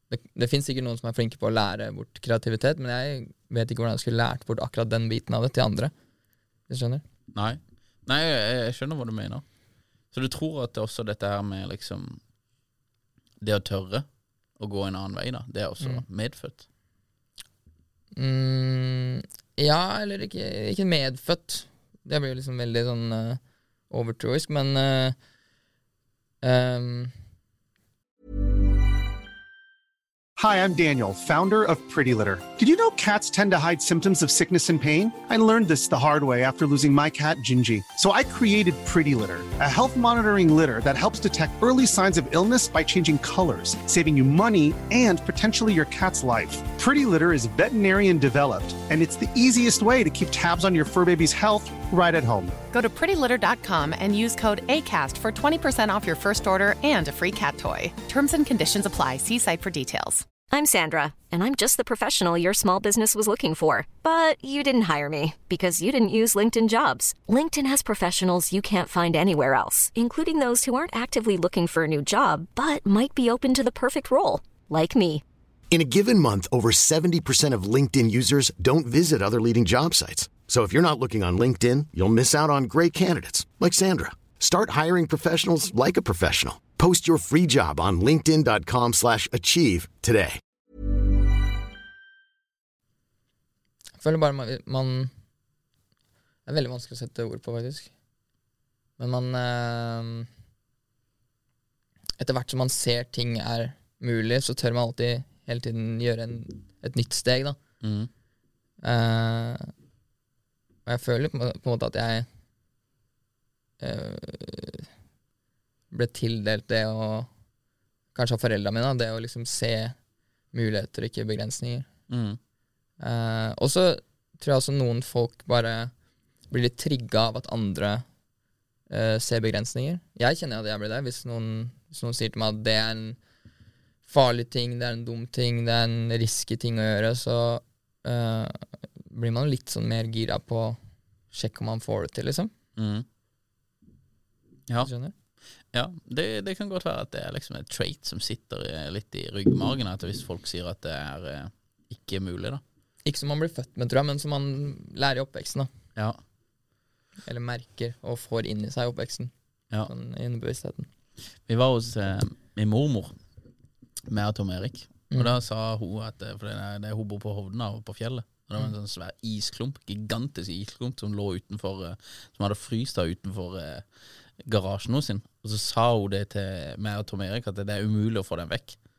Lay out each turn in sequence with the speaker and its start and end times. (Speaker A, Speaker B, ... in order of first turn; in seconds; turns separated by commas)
Speaker A: 0.1-5.9, Speaker A: 6.7-7.0, Speaker B: 7.3-9.4, Speaker B: 10.1-12.2, Speaker B: 13.4-14.0, Speaker B: 14.6-16.6, Speaker A: 18.1-25.1, Speaker A: 26.4-27.1, Speaker C: 30.4-52.6, Speaker D: 52.7-60.3, Speaker E: 60.5-75.2, Speaker F: 75.7-90.4, Speaker A: 94.0-95.1, Speaker A: 96.5-97.9, Speaker A: 99.0-100.3, Speaker A: 102.2-107.6, Speaker B: 107.8-108.1, Speaker A: 108.8-109.7, Speaker A: 110.8-112.2, Speaker A: 113.8-114.8, Speaker A: 115.9-117.3, Speaker A: 118.1-120.0, Speaker A: 120.5-121.9, Speaker B: 122.1-122.4, Speaker A: 123.0-125.9, Speaker A: 126.5-128.0, Speaker A: 128.9-133.2, Speaker A: 134.1-140.8, Speaker A: 141.3-142.5, Speaker B: 142.8-143.0, Speaker A: 144.8-145.1, Speaker B: 145.7-152.6, Speaker A: 153.0-155.7, Speaker A: 157.2-159.3, Speaker A: 159.8-160.9, Speaker B: 161.5-163.1, Speaker B: 164.1-173.8, Speaker B: 174.4-178.8